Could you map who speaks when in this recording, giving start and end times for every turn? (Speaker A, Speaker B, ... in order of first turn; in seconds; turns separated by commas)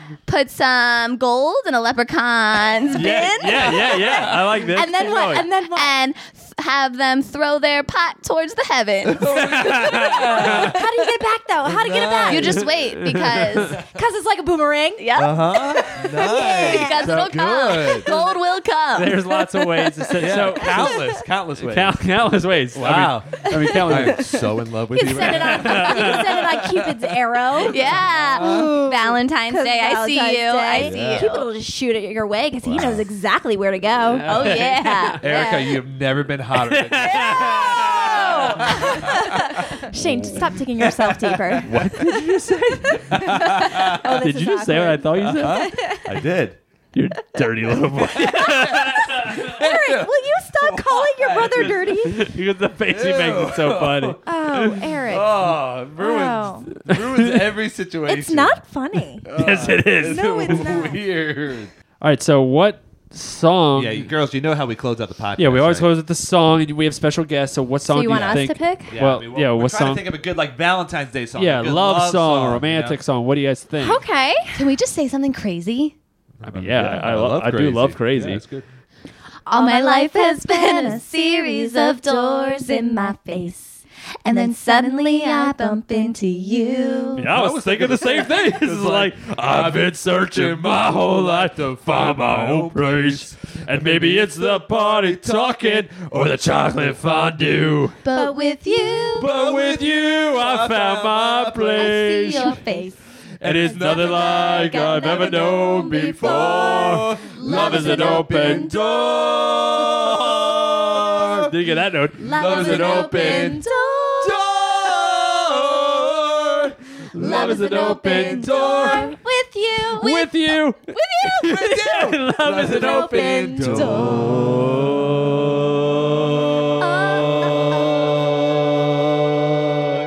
Speaker A: 0.3-3.1, Speaker B: 2.9-5.5, Speaker C: 2.9-5.9, Speaker D: 3.9-4.5, Speaker A: 4.8-9.6, Speaker D: 9.0-10.8, Speaker B: 9.4-10.7, Speaker C: 9.5-12.6, Speaker D: 11.6-12.6, Speaker A: 12.3-13.8, Speaker B: 12.7-13.7, Speaker C: 13.8-17.0, Speaker A: 15.0-15.4, Speaker D: 15.1-18.1, Speaker A: 16.1-19.1, Speaker B: 17.0-17.4, Speaker B: 18.9-21.0, Speaker C: 19.3-21.2, Speaker D: 20.2-22.0, Speaker B: 21.6-24.3, Speaker D: 22.7-26.3, Speaker C: 23.4-24.4, Speaker C: 24.9-27.8, Speaker B: 25.1-26.9, Speaker B: 27.6-28.1, Speaker A: 27.6-31.4, Speaker D: 28.2-28.8, Speaker C: 28.3-35.7, Speaker D: 30.7-31.4, Speaker D: 32.6-33.0, Speaker B: 34.1-35.2, Speaker A: 34.2-35.6, Speaker D: 35.2-42.2, Speaker B: 36.5-38.9, Speaker C: 37.0-41.7, Speaker B: 41.6-45.7, Speaker C: 42.8-46.1, Speaker D: 43.1-44.1, Speaker D: 45.2-46.6, Speaker B: 46.9-49.6, Speaker D: 48.0-51.7, Speaker C: 48.1-52.2, Speaker B: 51.5-54.8, Speaker D: 52.9-58.6, Speaker C: 54.2-55.3, Speaker C: 56.0-56.7, Speaker B: 56.9-57.5, Speaker C: 58.1-59.2, Speaker D: 59.2-61.7, Speaker B: 59.3-60.6, Speaker C: 60.0-61.0, Speaker B: 62.0-64.1, Speaker D: 63.7-65.9, Speaker B: 65.4-70.0, Speaker C: 67.9-69.0, Speaker D: 68.1-73.0, Speaker B: 71.4-74.0, Speaker C: 73.8-74.7, Speaker A: 74.5-75.9, Speaker D: 76.4-78.7, Speaker B: 76.5-78.4, Speaker C: 79.5-87.2, Speaker A: 79.5-83.2, Speaker A: 84.2-86.1, Speaker A: 86.6-87.2, Speaker B: 87.2-98.0, Speaker D: 87.3-95.9, Speaker A: 98.0-99.2, Speaker C: 98.1-99.2, Speaker D: 99.1-102.2, Speaker B: 99.1-102.6, Speaker A: 101.8-102.9, Speaker C: 101.9-103.0, Speaker B: 103.4-113.6, Speaker D: 103.4-111.5, Speaker C: 103.6-108.8, Speaker A: 104.4-108.5, Speaker C: 112.2-114.4, Speaker D: 112.2-113.6, Speaker A: 112.3-114.3, Speaker D: 114.2-119.0, Speaker B: 114.8-116.0, Speaker B: 117.1-119.2, Speaker A: 117.2-119.2, Speaker C: 117.2-121.8, Speaker B: 120.0-125.0, Speaker D: 121.4-124.6, Speaker C: 122.6-124.3, Speaker A: 126.8-127.8